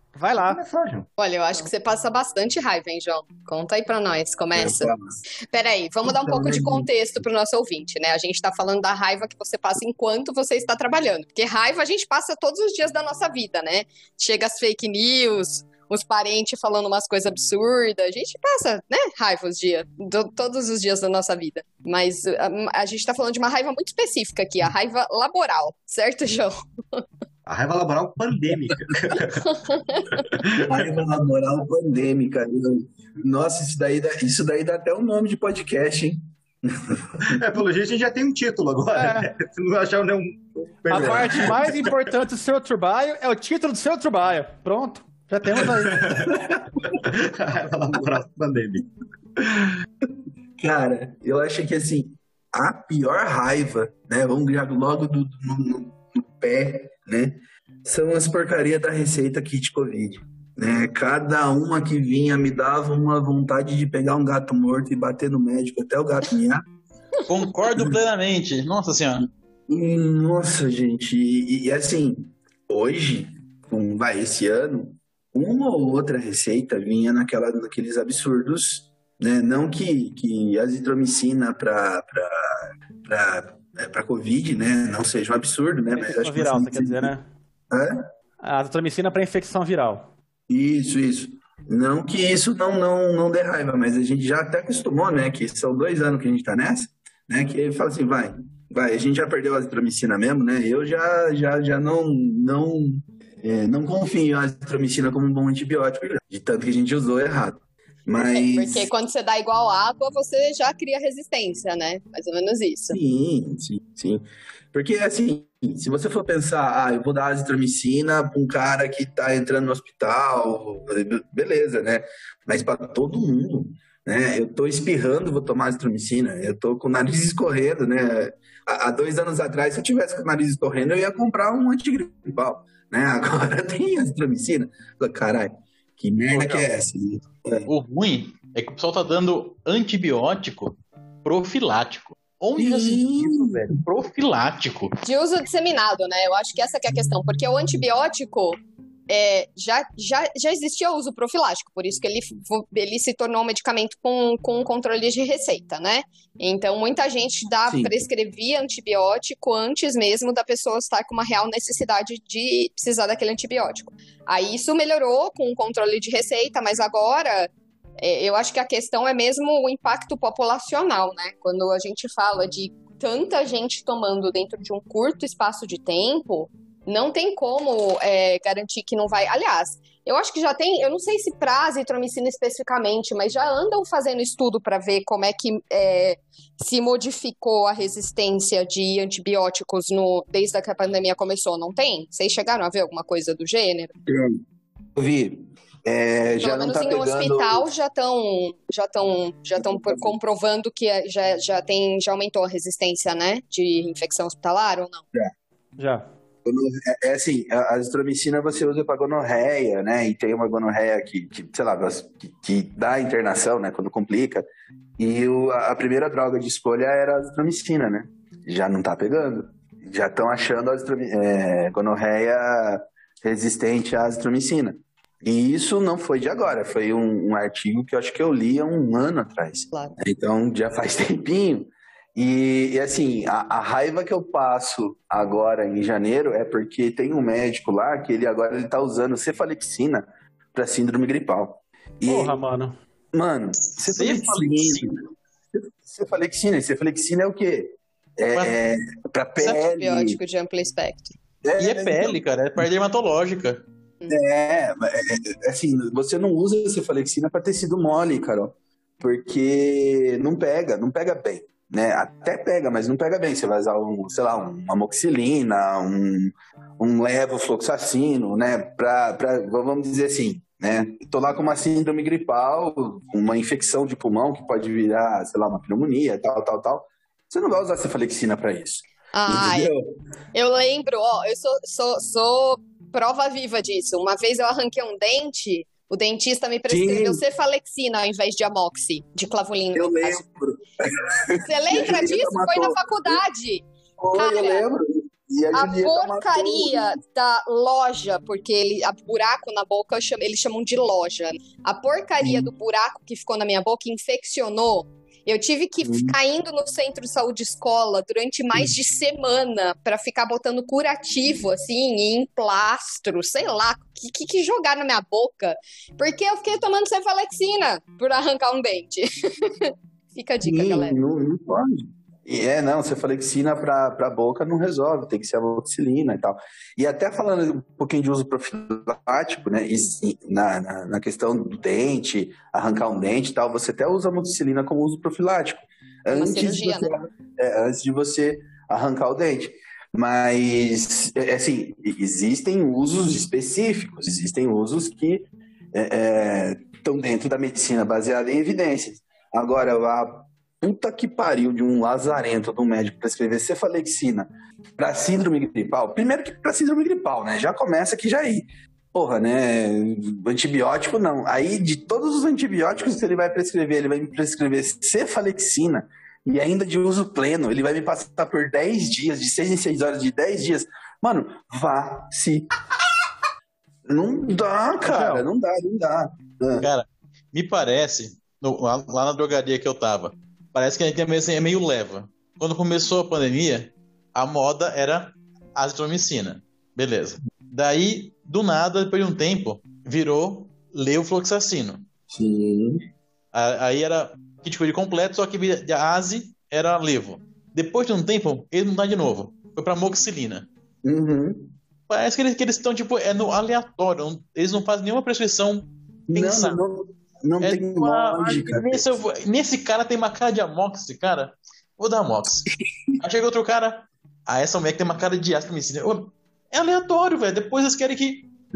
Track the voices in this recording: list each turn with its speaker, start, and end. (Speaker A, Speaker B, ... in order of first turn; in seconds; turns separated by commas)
Speaker A: 0.1-0.6, Speaker B: 0.4-1.1, Speaker C: 1.2-4.9, Speaker D: 4.5-5.2, Speaker C: 5.5-27.0, Speaker D: 6.0-6.8, Speaker B: 27.4-29.5, Speaker C: 29.4-30.2, Speaker B: 30.1-30.9, Speaker D: 30.6-37.4, Speaker B: 37.2-41.9, Speaker A: 39.0-39.3, Speaker A: 40.9-46.0, Speaker D: 40.9-41.5, Speaker B: 45.8-49.7, Speaker D: 46.1-47.0, Speaker D: 50.6-66.6, Speaker E: 67.3-69.3, Speaker D: 69.7-87.1, Speaker A: 85.9-87.2, Speaker D: 87.7-88.0, Speaker A: 88.4-90.1, Speaker D: 90.5-108.9, Speaker C: 108.3-113.0, Speaker D: 112.9-137.7, Speaker E: 136.3-136.7, Speaker E: 137.7-144.9, Speaker D: 142.6-143.7, Speaker C: 145.0-193.9, Speaker D: 157.7-158.0, Speaker D: 194.1-194.4, Speaker D: 194.9-197.7, Speaker C: 196.4-205.0, Speaker D: 199.6-200.1, Speaker A: 205.8-206.1, Speaker D: 206.4-214.5, Speaker D: 215.0-242.4, Speaker A: 242.0-242.7, Speaker D: 243.1-250.2, Speaker E: 243.8-244.9, Speaker E: 248.3-248.6, Speaker C: 249.4-251.1, Speaker D: 251.4-252.2, Speaker E: 251.6-253.6, Speaker D: 254.1-279.9, Speaker C: 279.1-279.7, Speaker C: 280.3-290.2, Speaker D: 286.7-287.2, Speaker D: 289.7-293.2, Speaker C: 291.4-294.6, Speaker D: 294.0-297.0, Speaker C: 295.5-321.0, Speaker D: 302.2-302.5, Speaker D: 305.8-306.1, Speaker D: 320.4-372.5, Speaker C: 336.1-336.9, Speaker D: 373.9-376.7, Speaker A: 374.8-375.3, Speaker E: 376.6-391.9, Speaker D: 392.1-392.8, Speaker E: 393.3-400.5, Speaker D: 400.8-401.5, Speaker E: 401.9-406.6, Speaker D: 406.1-409.0, Speaker E: 407.4-418.3